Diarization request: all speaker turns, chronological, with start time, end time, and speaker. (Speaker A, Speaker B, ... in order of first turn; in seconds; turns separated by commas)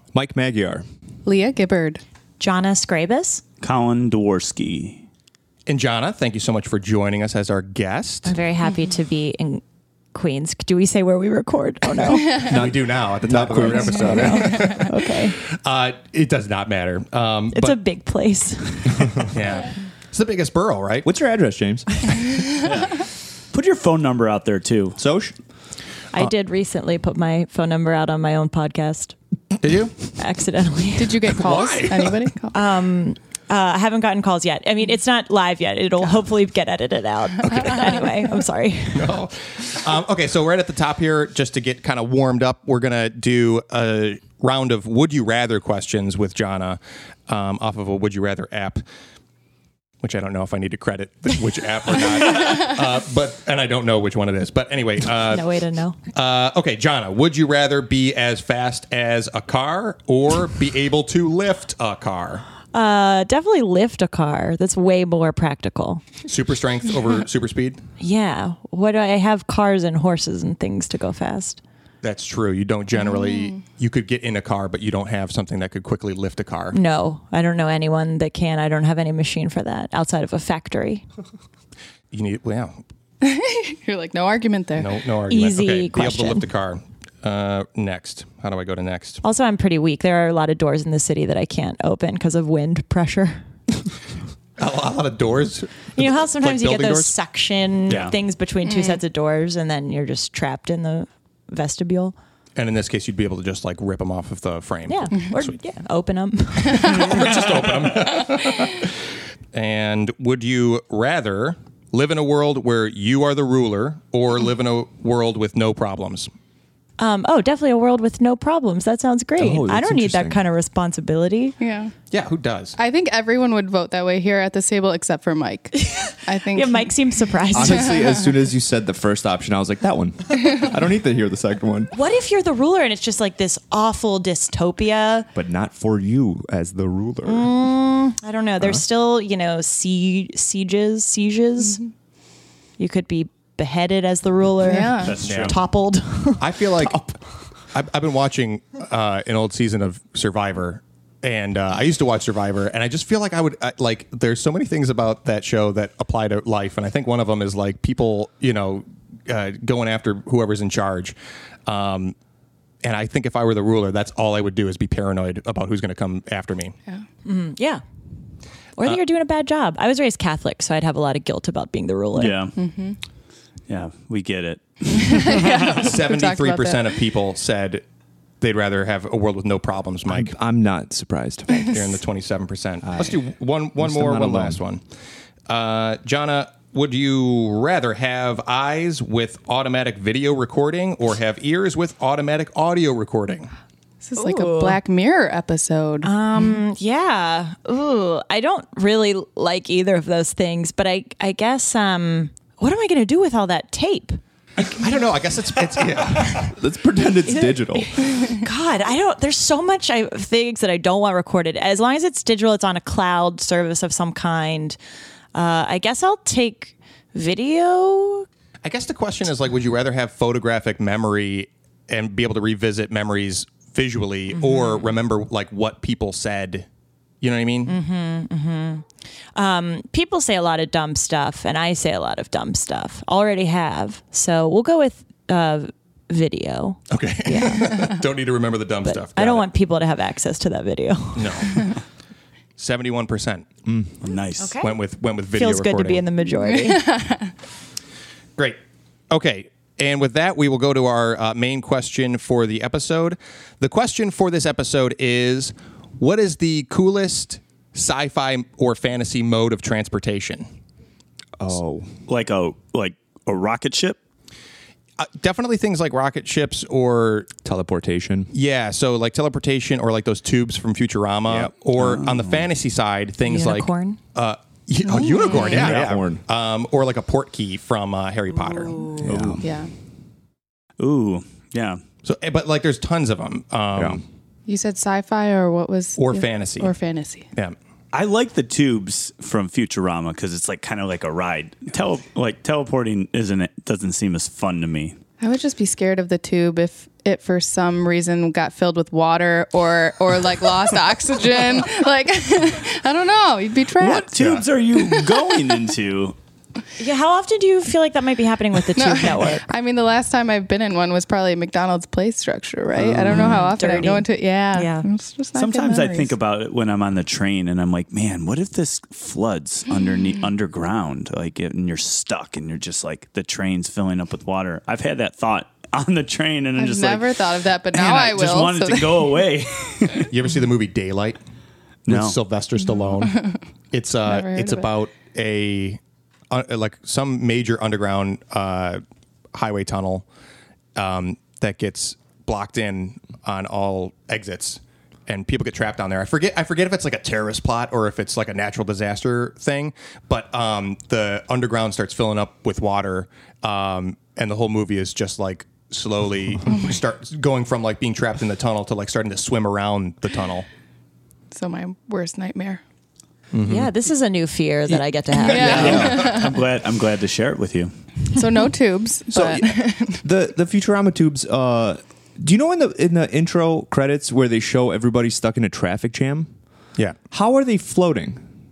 Speaker A: 0.1-0.8, Speaker B: 1.2-2.0, Speaker C: 2.4-3.4, Speaker D: 3.6-5.0, Speaker E: 5.7-8.3, Speaker C: 8.2-9.6, Speaker C: 10.1-12.5, Speaker A: 12.4-14.8, Speaker E: 12.5-17.8, Speaker C: 13.9-15.4, Speaker C: 17.5-19.2, Speaker E: 19.2-21.1, Speaker A: 21.1-22.1, Speaker D: 22.6-25.0, Speaker A: 25.0-25.4, Speaker C: 26.1-29.1, Speaker E: 29.6-30.0, Speaker C: 30.2-31.4, Speaker B: 31.0-32.5, Speaker E: 31.4-32.2, Speaker C: 32.5-39.2, Speaker E: 38.9-48.8, Speaker E: 50.0-55.5, Speaker C: 55.3-56.0, Speaker E: 56.1-62.5, Speaker C: 62.7-66.0, Speaker E: 66.3-67.8, Speaker C: 68.0-71.6, Speaker E: 72.0-76.8, Speaker B: 73.1-73.5, Speaker C: 76.7-81.0, Speaker E: 82.1-82.8, Speaker B: 83.2-84.9, Speaker E: 84.8-89.2, Speaker C: 85.3-86.4, Speaker C: 89.2-93.5, Speaker E: 94.6-97.1, Speaker C: 96.0-102.2, Speaker D: 97.9-98.2, Speaker B: 98.7-99.0, Speaker E: 102.6-105.6, Speaker C: 104.9-107.2, Speaker E: 106.6-108.9, Speaker E: 109.5-116.3, Speaker C: 117.0-121.6, Speaker A: 119.4-120.4, Speaker B: 121.6-121.9, Speaker E: 122.1-122.8, Speaker B: 122.8-126.9, Speaker C: 125.7-128.0, Speaker A: 127.5-131.9, Speaker C: 131.9-135.3, Speaker A: 135.3-137.5, Speaker C: 137.2-141.8, Speaker C: 142.8-146.7, Speaker B: 144.6-145.2, Speaker D: 145.0-145.6, Speaker E: 145.2-145.6, Speaker E: 146.4-147.1, Speaker E: 147.7-162.2, Speaker E: 162.8-166.8, Speaker C: 167.2-167.8, Speaker C: 168.8-172.4, Speaker D: 172.2-172.5, Speaker B: 172.6-173.0, Speaker D: 173.7-175.7, Speaker B: 174.9-176.8, Speaker E: 175.5-177.8, Speaker E: 178.4-180.3, Speaker A: 180.1-181.7, Speaker E: 181.6-184.8, Speaker A: 182.8-183.2, Speaker A: 183.8-184.6, Speaker E: 185.5-193.5, Speaker B: 194.0-196.6, Speaker C: 194.2-194.8, Speaker C: 196.0-204.2, Speaker E: 204.6-206.6, Speaker A: 205.9-208.1, Speaker C: 207.3-214.8, Speaker C: 215.3-218.3, Speaker E: 218.6-226.7, Speaker C: 224.4-224.8, Speaker E: 227.2-227.7, Speaker C: 227.7-237.8, Speaker E: 236.9-239.5, Speaker C: 238.8-241.5, Speaker E: 241.2-241.8, Speaker E: 242.6-243.5, Speaker A: 243.7-243.9, Speaker D: 244.0-244.6, Speaker C: 244.4-244.8, Speaker E: 244.6-246.0, Speaker C: 245.3-246.9, Speaker B: 246.5-247.3, Speaker E: 249.1-260.5, Speaker A: 261.4-261.9, Speaker D: 262.1-264.0, Speaker E: 265.0-267.3, Speaker A: 267.4-268.3, Speaker E: 268.3-278.9, Speaker A: 271.3-271.5, Speaker D: 271.8-272.5, Speaker C: 273.2-274.0, Speaker B: 274.9-275.6, Speaker A: 275.3-276.2, Speaker D: 275.6-275.9, Speaker C: 278.4-279.1, Speaker A: 279.0-279.4, Speaker D: 279.0-279.4, Speaker B: 279.4-279.7, Speaker D: 280.8-281.8, Speaker E: 282.1-284.0, Speaker A: 283.8-284.0, Speaker B: 284.5-287.3, Speaker E: 286.0-286.7, Speaker D: 287.9-295.0, Speaker B: 295.2-304.1, Speaker D: 303.8-306.2, Speaker C: 306.8-309.5, Speaker B: 308.7-316.2, Speaker D: 313.1-313.4, Speaker A: 313.1-313.3, Speaker C: 313.1-314.9, Speaker D: 315.4-327.2, Speaker B: 326.6-329.2, Speaker D: 327.7-330.1, Speaker E: 330.1-331.2, Speaker D: 331.9-332.2, Speaker E: 331.9-338.8, Speaker B: 334.0-334.7, Speaker E: 339.3-340.1, Speaker E: 340.8-360.5, Speaker B: 361.3-362.6, Speaker E: 363.3-363.7, Speaker C: 363.4-365.9, Speaker B: 365.2-366.3, Speaker E: 365.3-366.1, Speaker D: 365.4-367.7, Speaker A: 365.6-366.0, Speaker B: 368.1-370.0, Speaker A: 369.1-376.3, Speaker A: 377.1-378.2